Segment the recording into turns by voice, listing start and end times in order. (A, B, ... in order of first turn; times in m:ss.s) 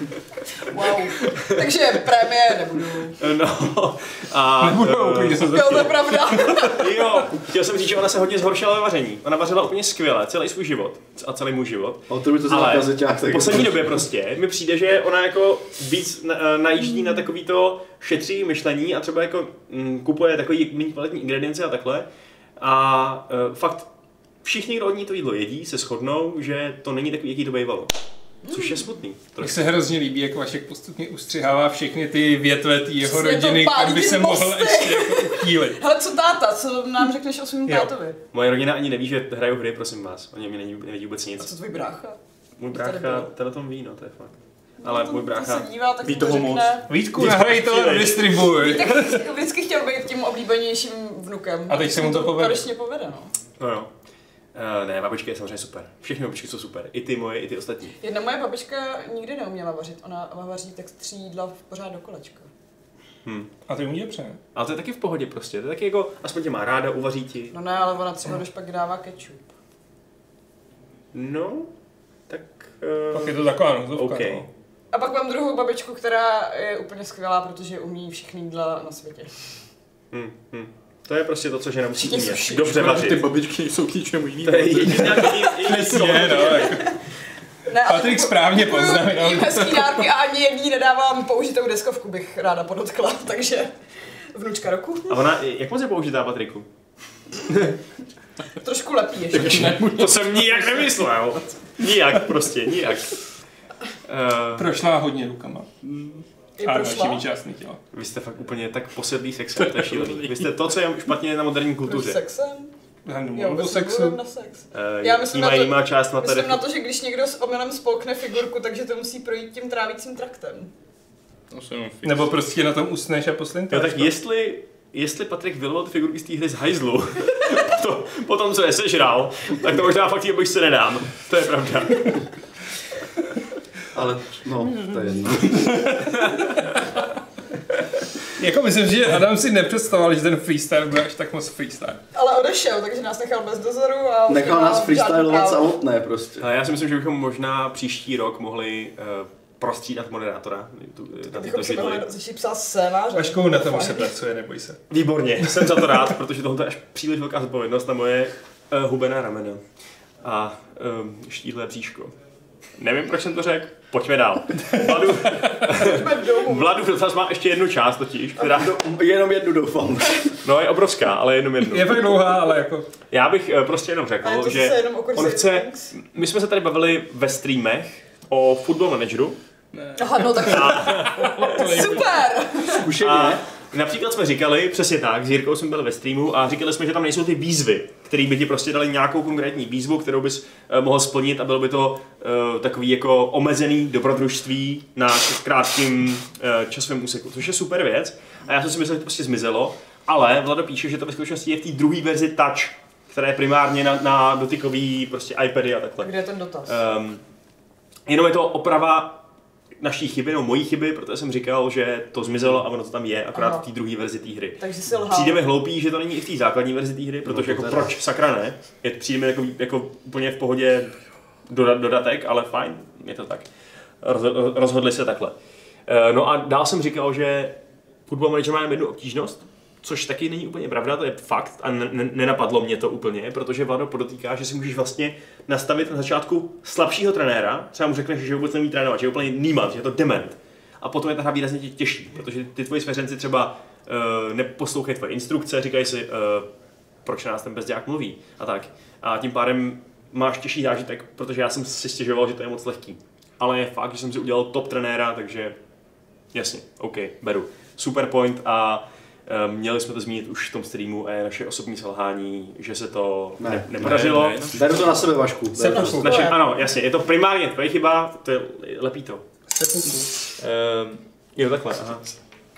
0:00.7-0:03.2 A
0:00.8-0:01.8 B
0:03.2-0:22.1 B
0:04.6-0:06.9 C
0:05.4-0:06.9 A
0:12.1-0:14.0 D
0:22.6-0:23.9 B
0:24.4-0:27.9 B
0:28.4-0:28.8 A
0:28.5-0:29.8 B
0:29.4-0:35.8 C
0:33.0-0:38.2 A
0:38.3-0:41.6 B
0:41.4-0:42.2 A
0:42.6-0:45.7 B
0:42.7-0:43.3 A
0:44.8-0:46.9 A
0:46.0-0:46.9 E
0:46.9-0:49.3 C
0:47.1-0:48.5 B
0:48.6-0:53.3 A
0:51.7-0:52.7 C
0:53.6-0:53.9 B
0:54.5-0:58.0 B
0:58.0-1:02.5 A
1:03.7-1:04.4 C
1:04.6-1:07.6 B
1:07.5-1:09.5 A
1:11.1-1:11.7 B
1:12.3-1:13.4 B
1:13.1-1:14.5 C
1:14.0-1:14.5 B
1:14.9-1:19.3 A
1:20.1-1:23.2 B
1:22.0-1:22.7 A
1:22.7-1:26.6 E
1:24.4-1:26.8 B
1:25.6-1:26.9 C
1:27.7-1:33.7 A
1:27.8-1:30.0 C
1:34.3-1:35.2 A
1:35.1-1:36.7 B
1:37.4-1:37.8 B
1:38.6-1:39.8 A
1:39.3-1:41.0 E
1:39.4-1:43.2 B
1:44.1-1:44.7 B
1:44.6-1:45.7 C
1:45.8-1:46.3 E
1:46.6-1:47.3 A
1:46.6-1:47.8 C
1:47.9-1:52.2 B
1:49.6-1:50.5 E
1:51.8-1:52.7 A
1:53.1-1:54.2 C
1:53.3-2:00.7 A
1:54.7-1:56.6 B
2:01.5-2:02.4 E
2:02.0-2:04.2 C
2:03.7-2:12.2 B
2:13.9-2:15.8 D
2:15.5-2:16.8 C
2:16.2-2:16.6 B
2:18.4-2:22.0 C
2:22.1-2:25.7 A
2:24.3-2:26.5 D
2:26.4-2:32.1 B
2:31.3-2:34.1 A
2:33.2-2:34.8 C
2:34.9-2:39.6 B
2:35.4-2:35.9 C
2:40.2-2:42.1 B
2:42.8-2:48.8 B
2:44.8-2:45.6 C
2:45.6-2:46.8 A
2:48.4-2:50.3 D
2:50.4-2:52.2 B
2:51.7-2:52.9 C
2:53.1-2:59.4 B
2:54.2-2:55.9 A
2:59.7-3:00.8 E
3:00.0-3:02.9 A
3:00.4-3:01.7 B
3:01.1-3:02.2 C
3:02.6-3:03.4 D
3:03.0-3:26.1 B
3:26.0-3:26.8 A
3:26.7-3:27.2 B
3:28.1-3:29.2 B
3:29.8-3:41.0 B
3:33.4-3:33.6 A
3:34.6-3:35.4 A
3:37.2-3:37.9 D
3:41.5-3:43.5 B
3:44.0-3:45.3 B
3:45.9-3:47.6 B
3:48.1-4:06.5 B
4:07.0-4:15.6 B
4:16.3-4:24.5 B
4:23.4-4:23.9 D
4:23.8-4:24.7 E
4:24.5-4:26.1 D
4:25.6-4:26.4 C
4:25.6-4:26.7 A
4:26.0-4:29.2 B
4:29.5-4:30.1 C
4:30.4-4:32.2 B